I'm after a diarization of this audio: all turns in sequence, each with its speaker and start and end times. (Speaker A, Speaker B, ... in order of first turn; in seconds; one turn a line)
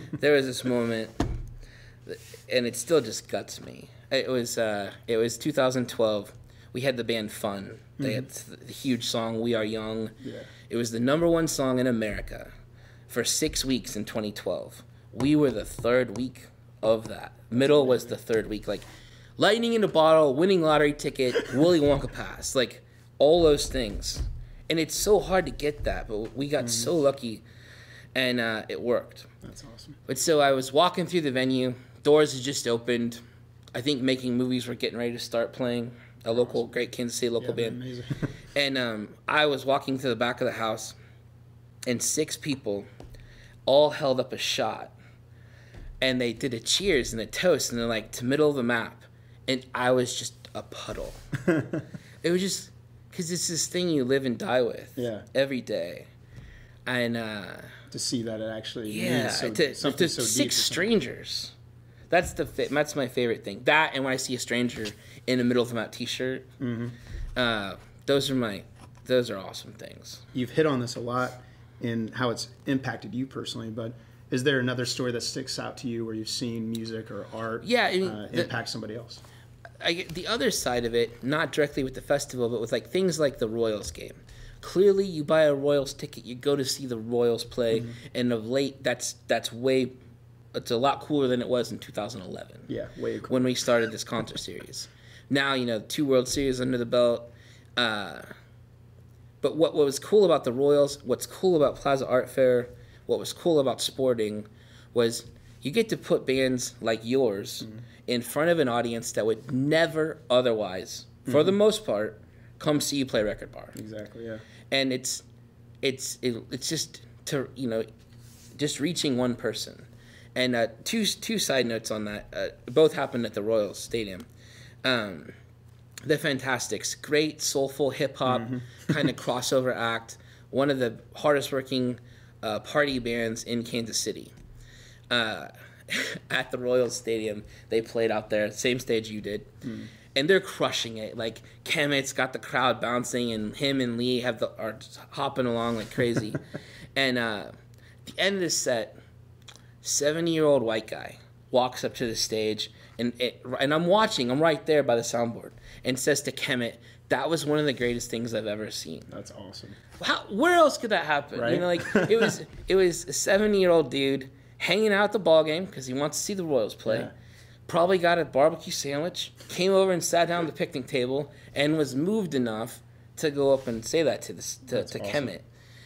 Speaker A: 0.2-1.3
Speaker A: 2.1-10.1
Speaker B: 10.2-10.5
Speaker A: 10.7-12.5
Speaker A: 13.1-18.9
Speaker B: 17.5-18.2
Speaker A: 19.4-27.4
Speaker B: 26.6-26.9
Speaker A: 28.1-29.3
Speaker B: 29.4-30.0
Speaker A: 30.1-33.2
Speaker A: 33.7-37.8
Speaker B: 37.4-38.3
Speaker A: 38.5-41.0
Speaker A: 41.9-42.9
Speaker A: 43.7-44.9
Speaker A: 46.0-51.2
Speaker A: 52.2-56.1
Speaker B: 55.0-55.3
Speaker A: 56.9-57.7
Speaker B: 57.9-60.9
Speaker A: 58.9-61.5
Speaker A: 62.1-66.5
Speaker B: 66.6-67.0
Speaker A: 67.4-70.2
Speaker B: 70.3-79.2
Speaker A: 77.6-78.5
Speaker A: 79.8-90.0
Speaker A: 90.5-92.7
Speaker B: 92.7-93.4
Speaker A: 93.3-98.3
Speaker A: 99.4-113.8
Speaker B: 113.8-114.4
Speaker A: 114.7-115.2
Speaker A: 115.8-117.9
Speaker A: 118.6-124.3
Speaker A: 124.8-125.3
Speaker A: 126.0-134.3
Speaker B: 128.3-128.6
Speaker A: 135.1-139.5
Speaker A: 140.1-146.4
Speaker A: 146.9-147.5
Speaker A: 148.1-149.0
Speaker A: 149.8-159.1
Speaker B: 159.1-159.8
Speaker A: 160.0-167.1
Speaker B: 161.4-162.3
Speaker B: 166.9-167.1
Speaker A: 167.7-175.4
Speaker B: 174.7-175.3